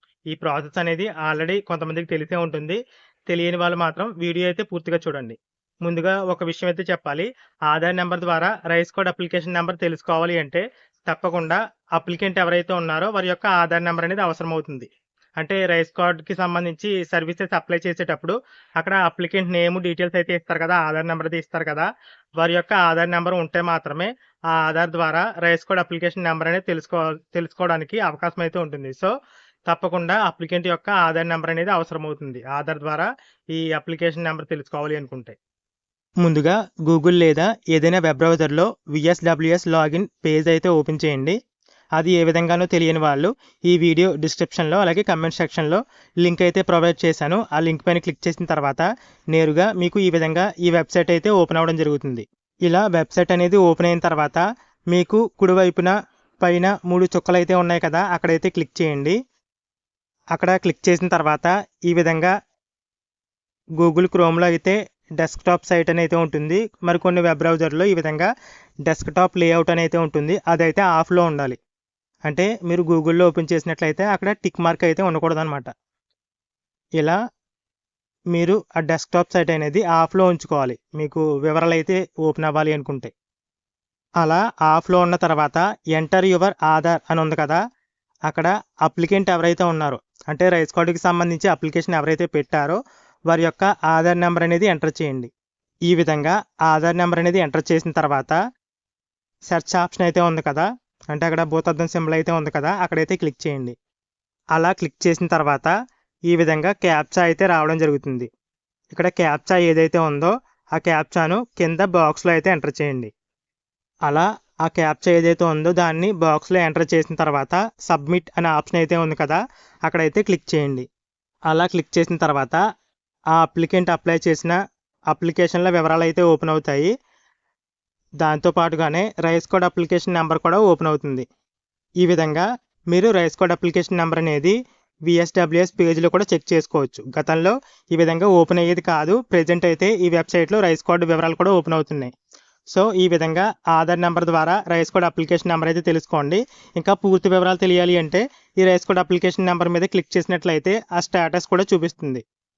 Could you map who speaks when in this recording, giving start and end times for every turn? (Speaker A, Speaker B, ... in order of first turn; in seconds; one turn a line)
Speaker A: 0.3-2.8
Speaker A: 3.3-14.9
Speaker A: 15.4-21.9
Speaker A: 22.4-29.1
Speaker A: 29.7-35.4
Speaker A: 36.2-41.4
Speaker A: 42.0-59.2
Speaker A: 60.3-62.3
Speaker A: 63.8-68.3
Speaker A: 68.9-71.6
Speaker A: 72.3-75.7
Speaker A: 78.3-83.1
Speaker A: 84.2-87.6
Speaker A: 88.3-92.8
Speaker A: 93.3-95.3
Speaker A: 95.9-98.4
Speaker A: 99.5-103.7
Speaker A: 104.5-105.7
Speaker A: 106.3-108.3
Speaker A: 108.9-113.1
Speaker A: 114.1-120.8
Speaker A: 121.5-122.6
Speaker A: 123.3-124.5
Speaker A: 125.1-126.9
Speaker A: 128.2-131.2
Speaker A: 132.0-134.5
Speaker A: 135.1-142.1
Speaker A: 142.7-152.2